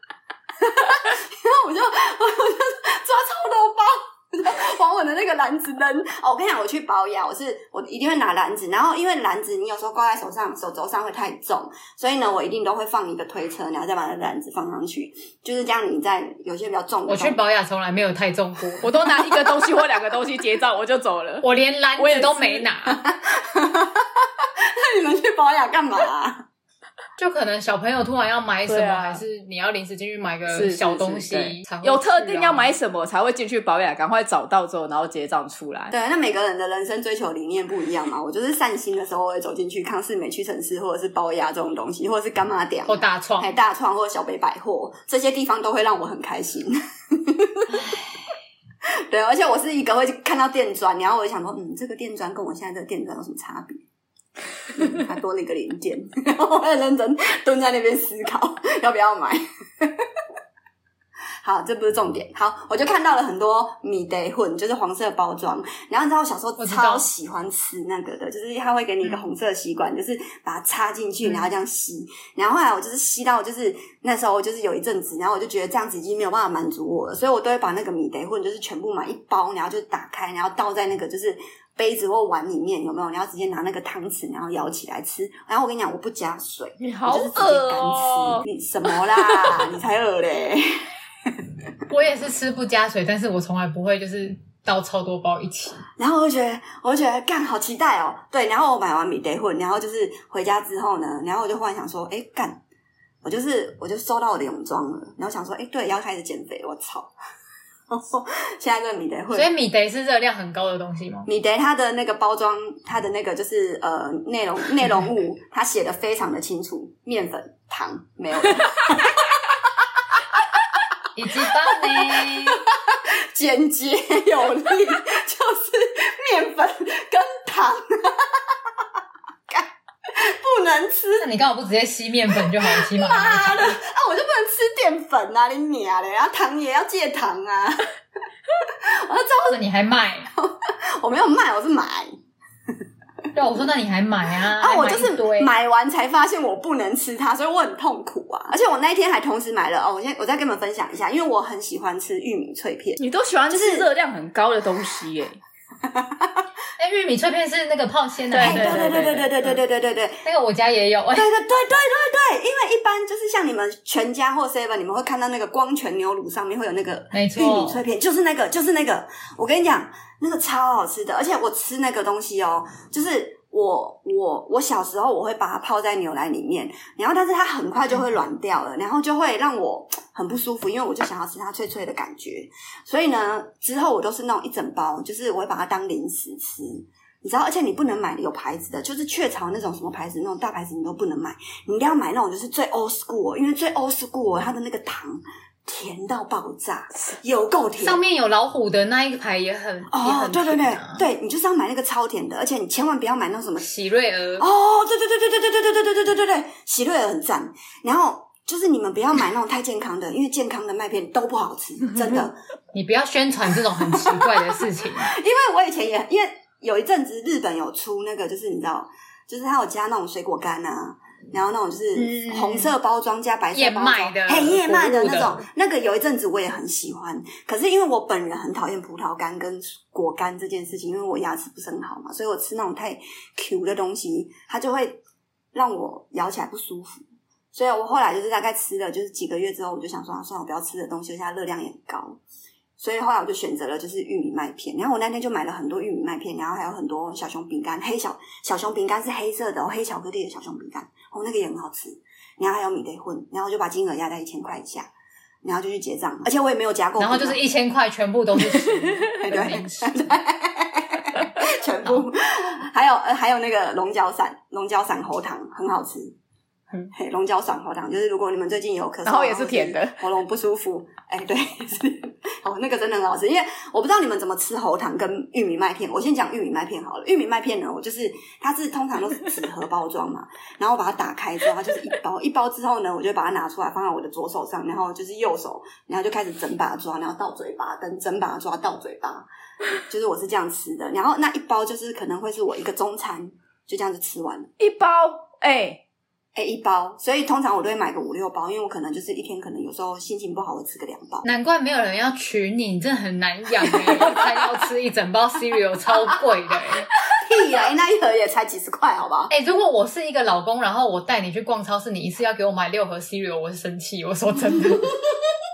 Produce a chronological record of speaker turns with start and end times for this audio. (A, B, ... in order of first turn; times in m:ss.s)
0:00.6-0:17.4 A
0:17.1-0:19.5 B
0:18.8-0:21.4 C
0:21.4-0:23.0 B
0:22.0-0:22.7 C
0:22.9-0:26.4 A
0:27.2-0:32.7 B
0:28.7-0:29.2 C
0:30.5-0:35.9 C
0:35.9-0:47.8 A
0:42.9-0:43.5 B
0:49.1-0:53.8 A
0:54.7-1:00.0 A
1:01.4-1:30.8 A
1:06.6-1:07.1 B
1:11.2-1:11.5 B
1:26.8-1:28.4 C
1:31.9-1:35.8 B
1:36.0-1:42.6 A
1:43.2-1:47.1 A
1:47.9-1:49.5 A
1:49.3-1:51.3 B
1:51.2-1:59.4 A
2:01.1-2:02.6 B
2:01.7-2:08.4 A
2:09.5-2:11.3 A
2:11.2-2:13.8 B
2:12.6-2:17.9 A
2:18.6-2:19.6 A
2:19.5-2:20.3 B
2:20.3-2:22.1 A
2:23.3-2:25.5 B
2:24.6-2:33.8 A
2:33.0-2:35.4 C
2:35.9-2:36.3 A
2:36.8-2:39.2 B
2:38.3-2:39.3 C
2:38.4-2:40.2 A
2:40.2-2:41.3 B
2:41.1-3:18.0 A
2:47.1-2:47.8 B
3:17.8-3:21.0 B
3:19.9-3:23.6 A
3:23.6-3:24.4 B
3:24.4-3:32.4 A
3:32.7-3:35.1 B
3:33.8-3:34.2 A
3:35.0-3:55.0 A
3:42.0-3:42.7 B
3:43.5-3:45.4 B
3:55.5-4:02.2 A
4:02.8-4:14.9 A
4:15.4-4:17.4 A
4:17.0-4:20.0 B
4:19.1-4:26.2 A
4:26.9-4:49.2 A
4:29.0-4:30.0 C
4:49.9-4:54.5 A
4:54.6-4:55.8 C
4:56.4-5:01.3 A
5:01.2-5:06.9 B
5:07.0-5:09.3 A
5:09.3-5:15.0 B